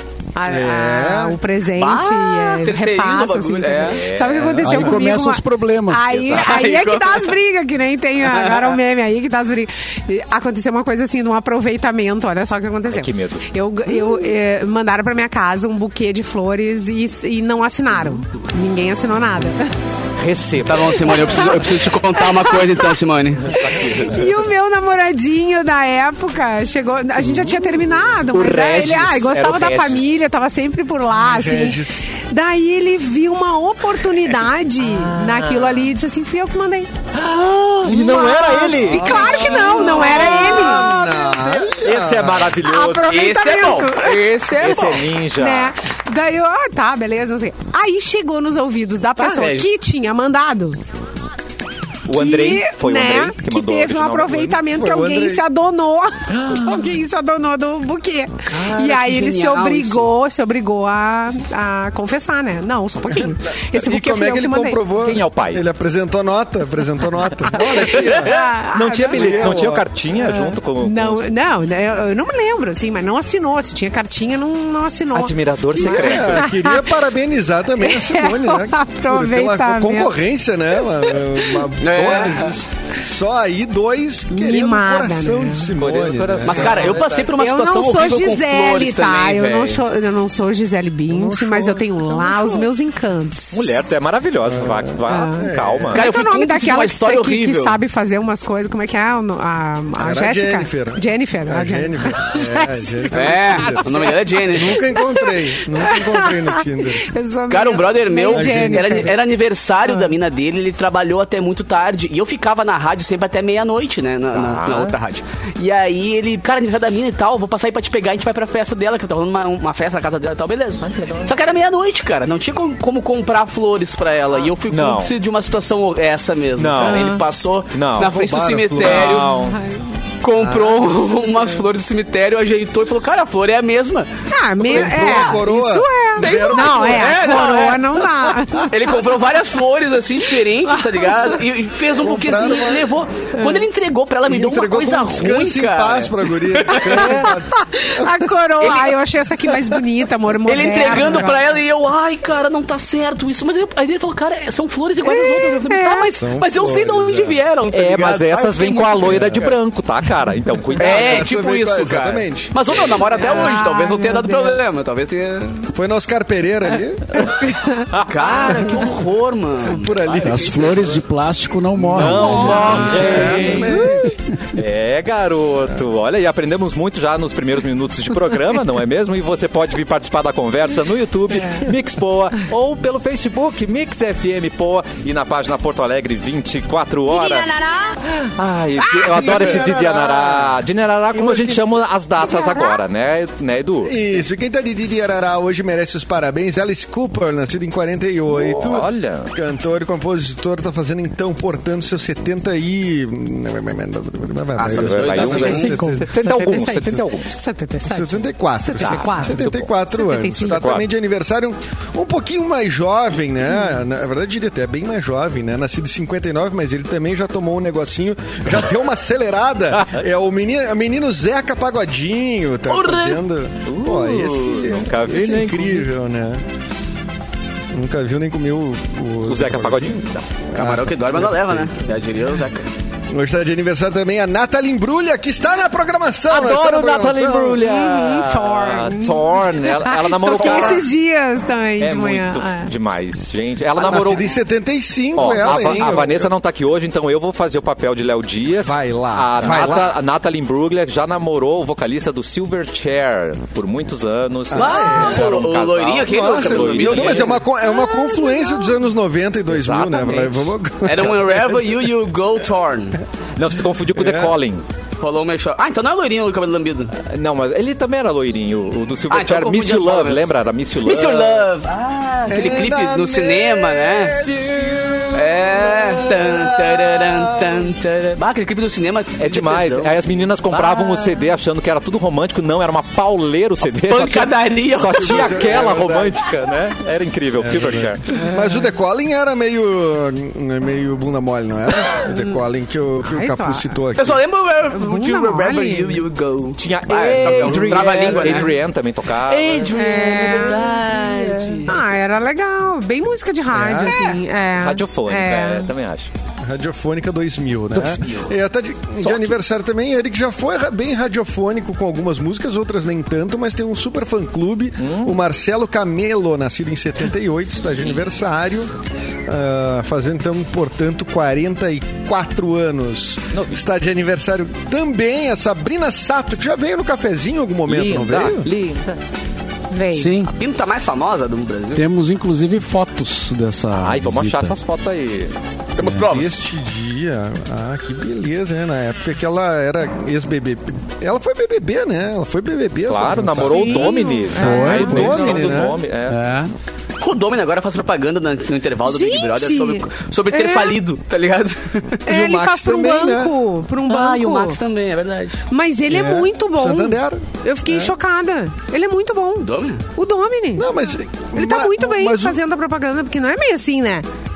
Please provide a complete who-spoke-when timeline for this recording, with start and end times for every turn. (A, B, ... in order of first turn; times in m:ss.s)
0:00.4-0:19.7 A
0:00.5-0:01.4 B
0:01.8-0:04.1 C
0:03.8-0:04.6 D
0:04.5-0:06.0 E
0:04.5-0:05.0 B
0:06.1-0:06.6 D
0:06.3-0:07.4 C
0:08.2-0:08.8 C
0:12.9-0:13.4 D
0:20.2-0:21.6 D
0:20.6-0:23.6 C
0:21.0-0:23.0 A
0:23.5-0:24.3 D
0:23.5-0:36.9 A
0:28.3-0:30.0 D
0:31.2-0:32.1 B
0:34.8-0:35.8 D
0:37.1-0:43.2 D
0:37.8-0:41.7 A
0:38.8-0:42.6 B
0:42.6-0:50.8 A
0:43.0-0:45.0 C
0:44.6-0:45.8 D
0:49.2-0:49.8 C
0:52.1-0:54.6 D
0:52.1-1:04.9 A
0:54.7-0:55.4 B
0:56.3-0:56.9 D
0:58.5-1:00.1 C
1:03.1-1:08.3 B
1:04.9-1:05.6 D
1:08.0-1:08.3 C
1:08.1-1:17.0 A
1:08.7-1:11.2 D
1:09.1-1:09.8 B
1:15.1-1:16.5 D
1:15.8-1:26.9 B
1:17.8-1:20.1 A
1:21.1-1:21.7 A
1:21.8-1:22.6 C
1:24.3-1:25.7 A
1:25.8-1:27.3 D
1:26.4-1:29.8 C
1:27.3-1:33.9 A
1:31.1-1:32.7 B
1:33.5-1:36.0 D
1:34.5-1:36.0 B
1:35.1-1:49.2 A
1:36.0-1:37.8 C
1:40.0-1:47.1 B
1:43.1-1:44.8 C
1:47.5-2:09.4 C
1:48.3-1:49.1 B
1:49.9-1:50.2 A
1:54.4-1:55.0 D
2:00.8-2:01.4 D
2:04.7-2:05.1 D
2:06.6-2:07.1 D
2:06.8-2:07.2 A
2:07.7-2:08.2 D
2:08.0-2:09.2 B
2:08.8-2:09.6 D
2:09.3-2:09.9 A
2:10.2-2:14.1 C
2:10.4-2:11.5 B
2:14.3-2:19.0 A
2:14.6-2:17.2 B
2:14.6-2:15.3 C
2:16.2-2:27.3 C
2:20.7-2:21.4 A
2:22.0-2:22.9 B
2:23.4-2:23.6 A
2:24.3-2:28.3 B
2:26.8-2:31.4 A
2:28.6-2:29.0 C
2:30.4-2:39.6 C
2:30.9-2:31.2 B
2:35.0-2:36.2 A
2:36.2-2:37.4 B
2:37.7-2:41.3 D
2:39.0-2:39.5 B
2:40.8-2:43.6 B
2:40.8-2:45.7 C
2:43.1-2:44.6 A
2:45.7-2:47.2 B
2:47.4-2:48.8 D
2:48.1-2:50.9 C
2:49.6-2:51.0 B
2:50.2-2:54.0 E
2:51.8-2:52.2 B
2:51.9-2:53.9 D
2:52.4-2:52.7 A
2:52.5-2:53.4 C
2:52.9-2:54.2 B
2:54.5-3:14.0 D
3:01.4-3:01.7 A
3:09.0-3:10.6 B
3:11.1-3:11.6 B
3:13.8-3:27.0 B
3:18.3-3:19.3 D
3:24.6-3:25.8 C
3:24.7-3:27.4 D
3:25.2-3:30.7 A
3:27.8-3:46.5 B
3:28.8-3:29.7 D
3:30.5-3:30.9 D
3:42.7-3:43.2 C
3:43.7-3:45.9 D
3:47.7-3:51.8 B
3:49.3-3:50.3 D
3:50.5-3:52.7 C
3:53.1-3:57.6 B
3:56.3-4:00.9 D
3:57.6-4:02.7 A
4:00.4-4:00.6 C
4:01.8-4:04.3 D
4:03.8-4:06.3 B
4:05.1-4:17.4 D
4:05.4-4:05.8 A
4:08.6-4:09.9 B
4:14.5-4:15.4 B
4:14.5-4:17.4 C
4:16.0-4:21.8 B
4:17.6-4:18.8 A
4:19.5-4:20.5 D
4:20.8-4:23.0 C
4:23.4-4:24.6 D
4:23.9-4:24.3 B
4:25.0-4:26.9 C
4:26.9-4:31.5 D
4:29.1-4:30.3 C
4:30.8-4:34.2 C
4:32.3-4:37.7 B
4:34.1-4:35.1 D
4:35.1-4:41.1 C
4:39.2-4:48.0 D
4:43.8-4:45.5 C
4:44.8-4:46.3 B
4:47.4-4:54.2 B
4:53.0-4:53.7 A
4:54.0-4:58.6 C
4:54.7-4:56.0 A
4:56.6-5:01.7 D
4:57.4-4:57.9 B
4:59.2-5:01.8 C
4:59.7-5:00.9 A
5:01.7-5:05.7 A
5:03.5-5:04.1 B
5:04.6-5:06.1 D
5:06.4-5:18.7 B
5:09.0-5:09.4 D
5:14.8-5:15.2 D
5:19.3-5:28.5 B
5:23.3-5:23.6 D
5:27.7-5:29.0 D
5:29.7-5:30.3 A
5:29.9-5:30.3 E
5:30.3-5:31.8 C
5:31.8-5:34.6 E
5:33.7-5:35.4 D
5:35.8-5:36.3 C
5:35.9-5:44.0 B
5:42.9-5:46.2 D
5:43.4-5:45.5 A
5:44.4-5:45.2 E
5:44.5-5:45.8 B
5:46.1-5:46.5 E
5:47.0-5:52.0 C
5:48.8-5:50.8 A
5:52.1-5:54.6 A
5:52.1-5:53.4 B
5:53.9-5:55.4 C
5:55.5-6:00.8 A
5:55.9-5:58.0 B
5:59.4-5:59.8 C
6:00.6-6:02.4 B
6:01.3-6:04.1 A